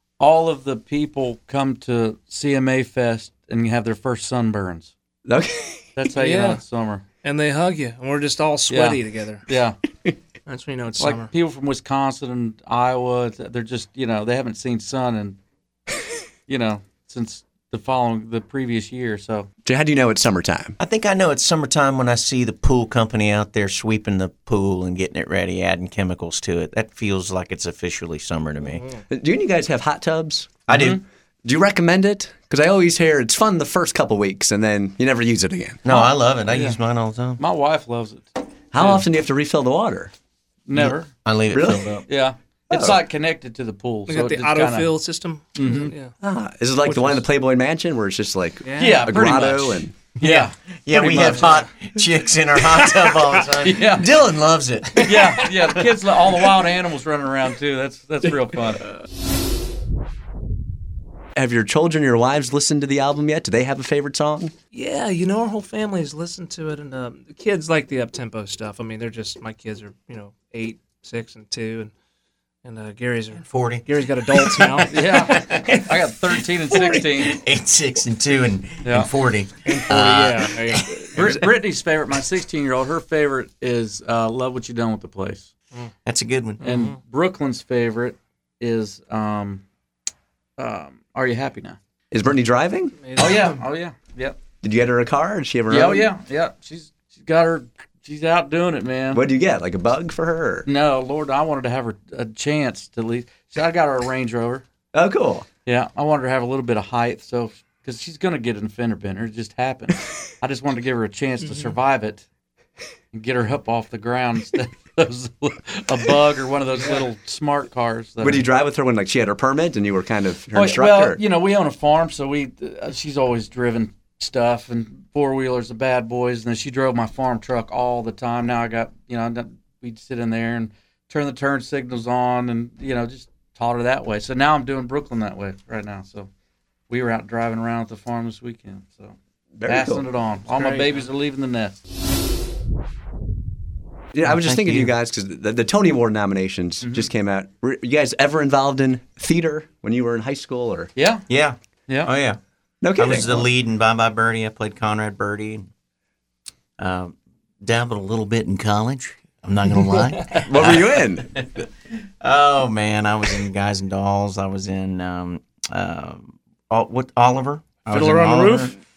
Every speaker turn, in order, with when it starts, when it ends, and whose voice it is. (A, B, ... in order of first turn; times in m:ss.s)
0:00.2-0:04.9 A
0:05.3-0:05.9 B
0:06.0-0:07.0 A
0:06.2-0:06.6 C
0:07.2-0:09.4 C
0:08.7-0:09.8 A
0:10.5-0:11.3 C
0:11.0-0:15.4 A
0:16.5-0:19.5 A
0:19.6-0:20.8 B
0:20.8-0:28.9 D
0:28.6-0:29.0 C
0:29.1-0:30.6 B
0:30.7-0:31.0 D
0:30.7-0:31.0 A
0:31.4-0:35.8 B
0:35.8-0:37.4 D
0:35.9-0:36.8 A
0:37.4-0:39.0 A
0:38.7-0:40.1 B
0:40.7-0:41.1 A
0:40.8-0:42.0 D
0:41.5-0:41.9 B
0:42.1-0:44.9 A
0:42.7-0:43.0 B
0:44.1-0:46.1 C
0:45.6-0:45.9 A
0:46.2-0:50.0 B
0:46.8-0:47.2 C
0:48.6-0:49.1 C
0:48.8-0:51.4 A
0:50.2-0:50.5 C
0:50.8-0:55.7 D
0:51.1-0:51.6 C
0:53.6-0:54.1 A
0:55.0-0:58.9 A
1:01.4-1:04.5 B
1:04.7-1:11.9 C
1:12.6-1:16.0 C
1:13.4-1:15.8 D
1:14.9-1:17.4 A
1:16.7-1:17.0 C
1:17.2-1:20.9 D
1:18.8-1:19.1 A
1:19.6-1:21.3 C
1:21.1-1:25.5 A
1:26.0-1:26.6 D
1:26.6-1:27.0 C
1:26.6-1:29.6 A
1:30.6-1:31.8 A
1:32.1-1:33.0 B
1:33.0-1:33.6 C
1:33.2-1:34.4 A
1:34.6-1:36.1 B
1:35.7-1:39.2 A
1:39.1-1:40.7 B
1:40.7-1:44.6 A
1:44.9-1:45.5 B
1:45.6-1:52.3 A
1:53.1-1:58.5 A
1:58.2-2:01.2 B
2:00.5-2:16.3 A
2:16.9-2:21.8 A
2:19.6-2:20.0 B
2:20.5-2:21.1 C
2:24.1-2:30.9 B
2:24.2-2:24.9 D
2:26.8-2:27.1 A
2:31.0-2:31.2 A
2:31.3-2:32.4 D
2:32.8-2:33.5 B
2:33.0-2:35.7 D
2:36.8-2:41.7 D
2:40.4-2:41.3 B
2:42.2-2:48.8 D
2:47.9-2:48.8 C